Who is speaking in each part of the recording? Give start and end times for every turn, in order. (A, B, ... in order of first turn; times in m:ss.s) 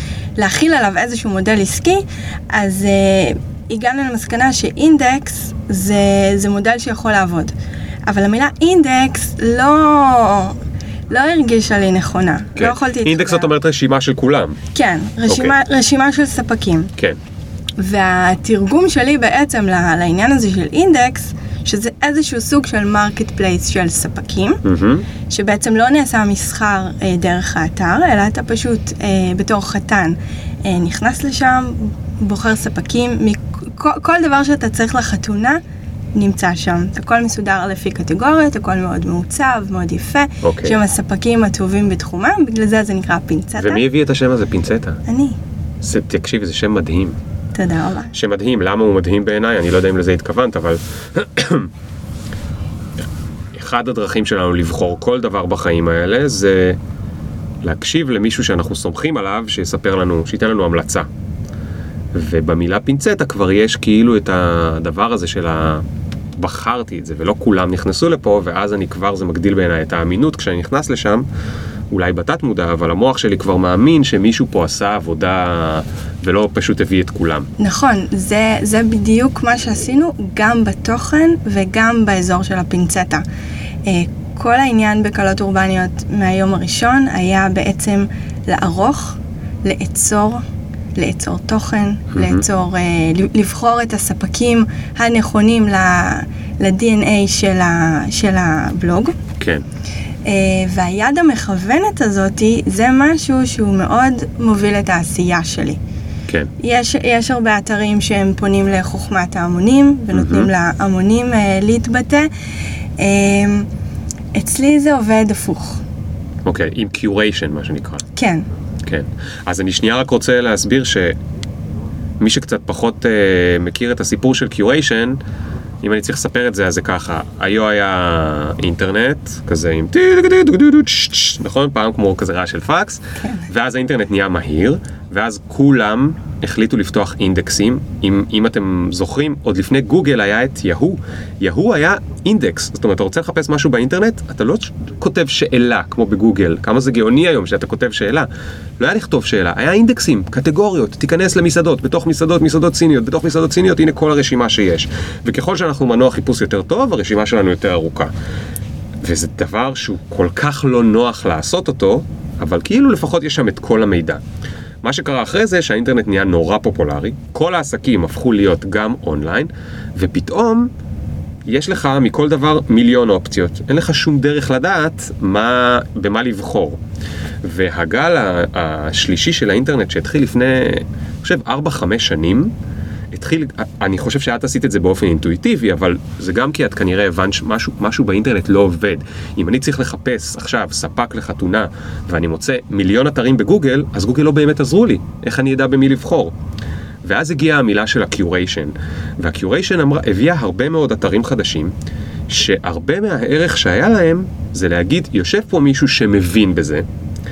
0:00.4-0:07.5 A
0:08.1-0:10.6 A
0:11.1-0:13.5 A
0:12.6-0:14.6 B
0:14.7-0:16.9 A
0:15.3-0:15.6 B
0:17.8-0:24.6 A
0:24.6-0:25.1 B
0:25.3-0:35.6 A
0:36.1-0:43.8 A
0:40.4-0:40.8 B
0:43.6-0:45.0 B
0:45.1-0:45.4 A
0:45.8-0:47.2 B
0:47.5-0:48.1 A
0:48.1-0:51.7 B
0:53.6-0:56.8 B
0:57.6-1:01.1 B
1:02.1-1:05.8 B
1:06.4-1:11.3 B
1:11.9-1:17.5 B
1:17.6-1:23.2 A
1:23.8-1:30.4 A
1:31.0-1:39.2 A
1:32.1-1:32.4 B
1:39.4-1:39.6 B
1:40.2-1:45.8 A
1:46.6-1:52.3 A
1:50.1-1:50.5 B
1:53.0-1:53.7 A
1:54.3-1:55.8 A
1:56.4-1:58.0 B
1:58.2-1:58.5 A
1:58.8-2:01.2 B
2:02.2-2:05.2 B
2:05.8-2:38.1 B
2:13.2-2:13.5 A
2:39.0-2:44.2 B
2:44.8-2:50.7 B
2:51.5-2:56.8 B
2:57.4-3:02.5 B
3:03.1-3:16.3 B
3:17.0-3:21.7 B
3:22.3-3:26.8 B